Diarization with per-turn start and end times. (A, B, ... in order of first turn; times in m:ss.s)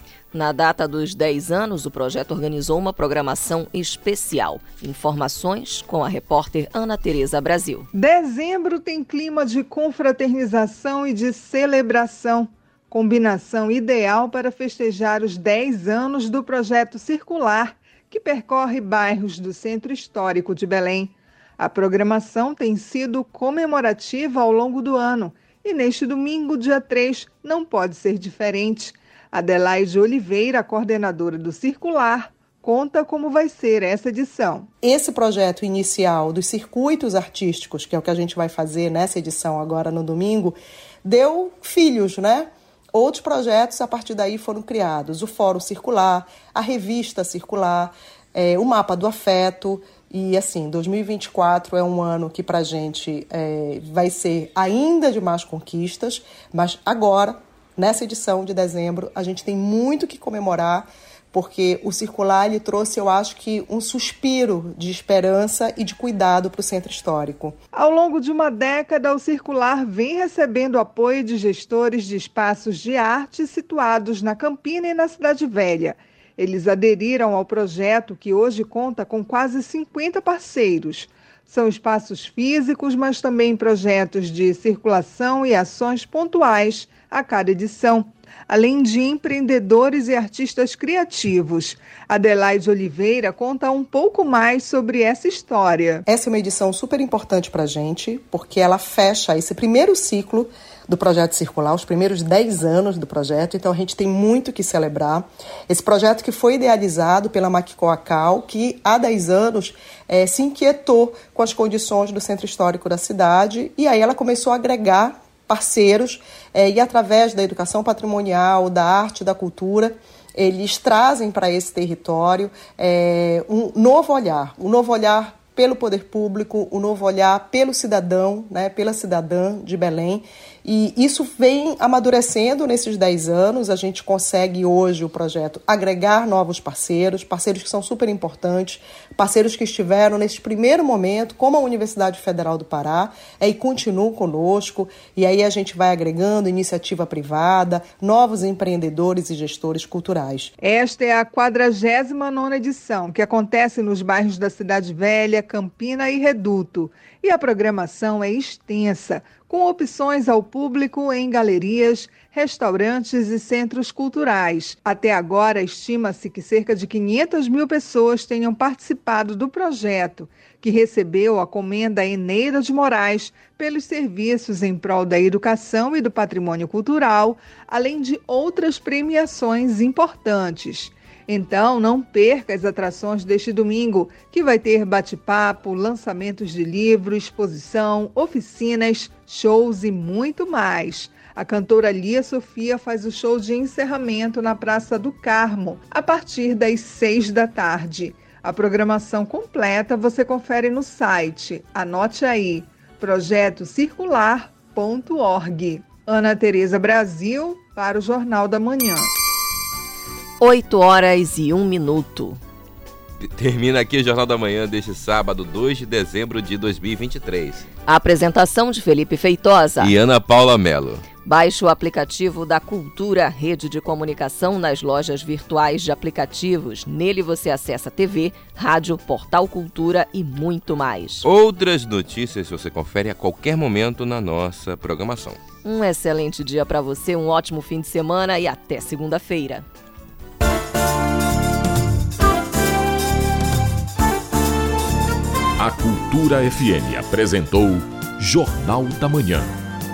0:00.3-0:07.9 A
0:07.9-0:34.7 B
0:34.8-1:07.6 C
1:07.7-1:36.0 B
1:36.1-2:30.5 C
2:30.6-3:29.1 B
3:30.4-3:32.4 A
3:33.2-3:37.7 D
3:37.8-3:39.9 A
3:39.8-3:41.0 D
3:41.2-3:51.2 A
3:51.2-3:55.4 D
3:55.6-3:59.6 A
4:05.6-4:09.5 E